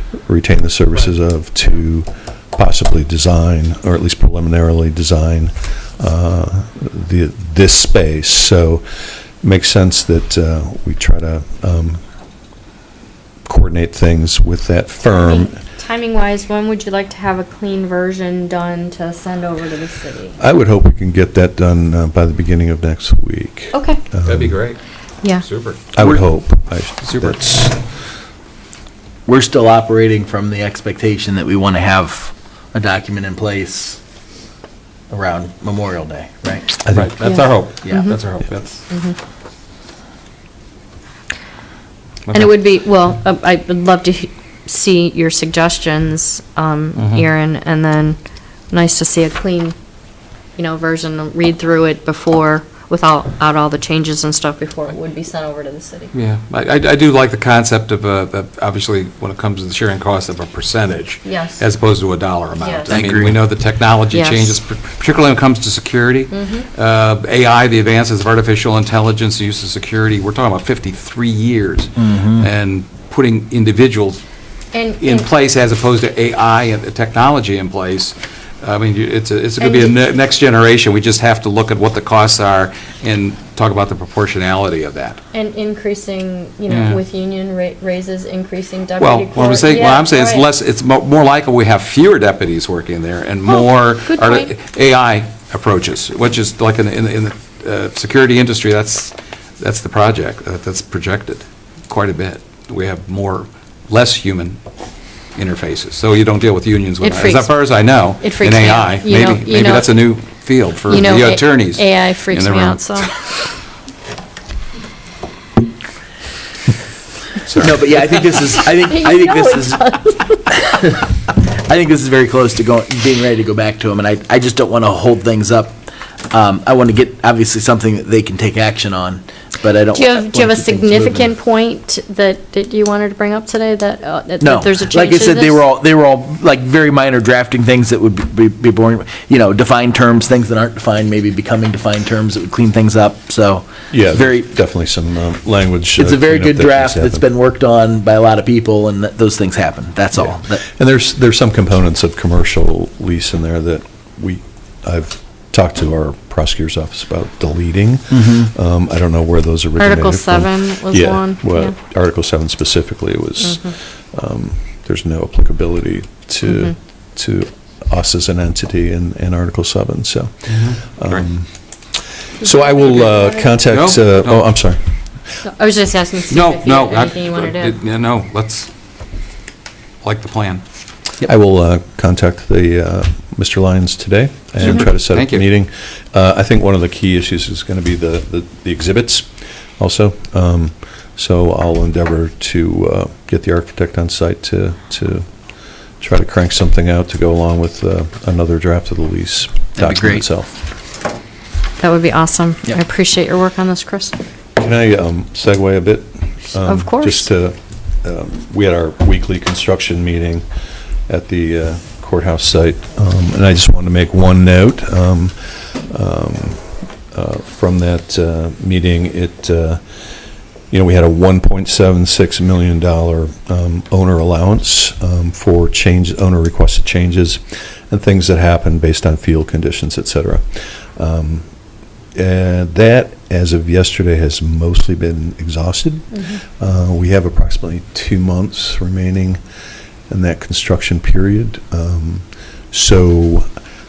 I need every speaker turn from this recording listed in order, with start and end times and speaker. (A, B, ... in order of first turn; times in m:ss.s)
0:00.3-0:08.8 A
0:09.4-0:12.0 A
0:13.4-0:15.5 A
0:15.1-0:20.4 B
0:20.4-0:24.6 A
0:23.7-0:24.0 B
0:24.2-0:24.8 C
0:25.4-0:25.8 C
0:25.9-0:27.8 A
0:26.0-0:26.2 D
0:27.0-0:27.4 C
0:29.2-0:34.0 D
0:35.1-0:36.8 D
0:36.8-0:38.8 C
0:37.2-0:38.1 B
0:37.8-0:38.2 D
0:38.9-0:39.2 B
0:42.3-0:42.6 C
0:42.3-0:48.2 B
0:47.0-0:47.3 C
0:48.7-0:49.7 B
0:50.6-0:56.1 B
0:56.1-1:14.2 C
1:01.2-1:01.6 B
1:02.6-1:03.0 B
1:02.9-1:03.4 D
1:04.1-1:04.5 B
1:06.3-1:06.7 B
1:12.0-1:12.4 D
1:14.7-1:15.3 B
1:15.0-1:25.2 C
1:19.6-1:20.0 B
1:25.3-1:30.5 B
1:26.7-1:27.0 C
1:29.0-1:44.6 C
1:33.5-1:34.5 B
1:45.3-1:53.1 C
1:47.0-1:50.0 B
1:50.9-1:53.1 B
1:57.4-1:58.1 C
1:57.6-1:59.8 D
1:58.8-2:00.6 B
2:00.5-2:05.8 D
2:06.3-2:11.3 D
2:09.9-2:15.6 B
2:14.4-2:24.5 D
2:23.9-2:27.2 A
2:26.0-2:30.6 D
2:30.2-2:51.5 A
2:38.1-2:38.5 D
2:39.8-2:41.8 B
2:43.4-2:43.7 B
2:50.5-2:51.3 C
2:52.4-2:54.8 A
2:52.4-2:53.6 B
2:53.7-2:54.6 C
2:55.4-2:57.7 B
2:56.3-2:58.7 C
3:00.0-3:00.6 C
3:01.2-3:15.3 A
3:04.6-3:05.4 C
3:16.0-3:20.5 A
3:19.8-3:20.2 D
3:21.8-3:24.2 B
3:24.6-3:30.4 A
3:26.6-3:27.2 B
3:31.1-3:39.8 A
3:40.7-3:50.4 A
3:51.0-3:51.5 A
3:52.1-3:59.4 A
3:56.1-3:56.4 B
4:00.1-4:03.5 A